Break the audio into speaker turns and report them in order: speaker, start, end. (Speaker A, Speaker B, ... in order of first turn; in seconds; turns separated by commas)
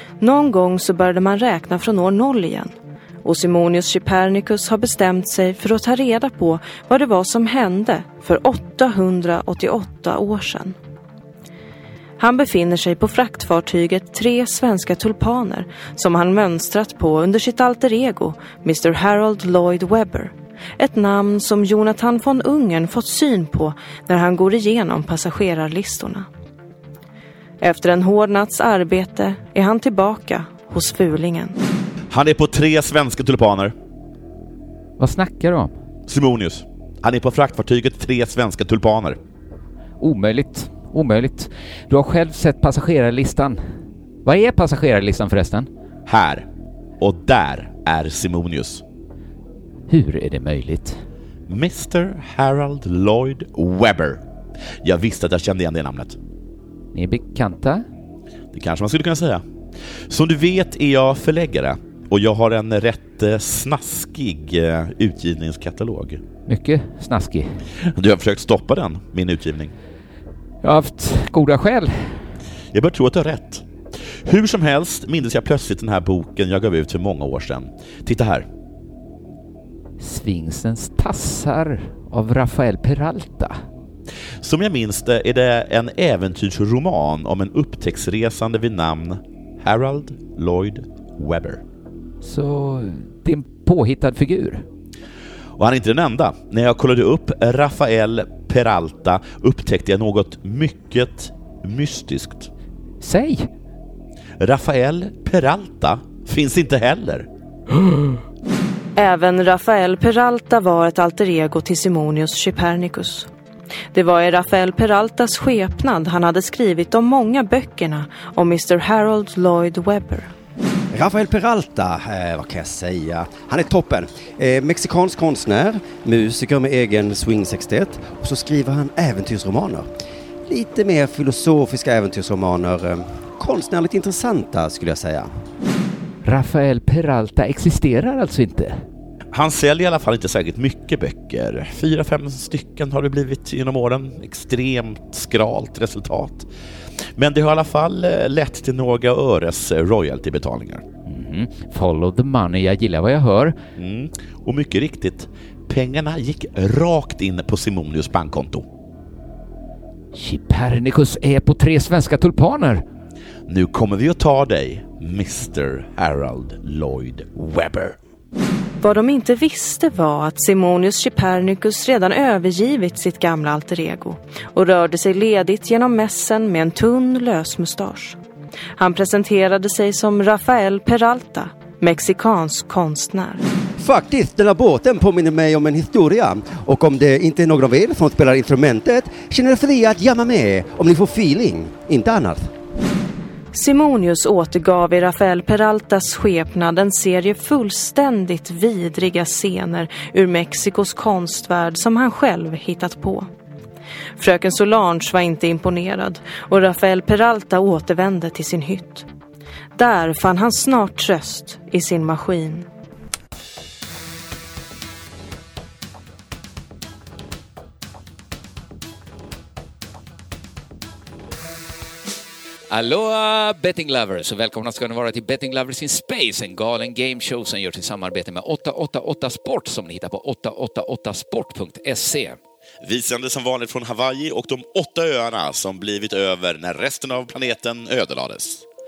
Speaker A: 0.2-2.7, Speaker A: 3.2-10.8, Speaker A: 12.2-26.3, Speaker A: 27.6-31.6, Speaker B: 32.1-33.7, Speaker C: 35.0-35.7, Speaker B: 36.1-39.2, Speaker C: 40.0-43.6, Speaker C: 44.2-45.7, Speaker B: 46.1-46.5, Speaker B: 47.0-48.8, Speaker C: 49.9-51.0, Speaker B: 51.5-54.2, Speaker B: 54.8-56.2, Speaker C: 56.9-57.8, Speaker B: 58.5-59.4, Speaker B: 60.1-66.2, Speaker C: 66.5-67.6, Speaker B: 67.8-69.7, Speaker C: 70.6-72.2, Speaker B: 72.7-78.5, Speaker C: 80.0-83.5, Speaker B: 84.4-91.6, Speaker C: 92.2-94.7, Speaker B: 95.6-102.5, Speaker C: 103.0-103.5, Speaker B: 104.4-107.3, Speaker A: 109.0-113.3, Speaker A: 113.9-120.3, Speaker D: 120.9-129.9, Speaker D: 130.5-135.3, Speaker C: 136.2-138.8, Speaker B: 139.3-146.5, Speaker B: 147.2-150.8, Speaker C: 151.1-153.5, Speaker B: 153.8-158.6, Speaker C: 160.1-162.8, Speaker B: 163.5-167.9, Speaker A: 168.8-178.2, Speaker A: 178.8-183.4, Speaker D: 183.8-192.5, Speaker A: 193.5-203.3, Speaker A: 204.2-209.1, Speaker A: 209.8-212.7, Speaker C: 222.7-232.4, Speaker B: 232.8-238.7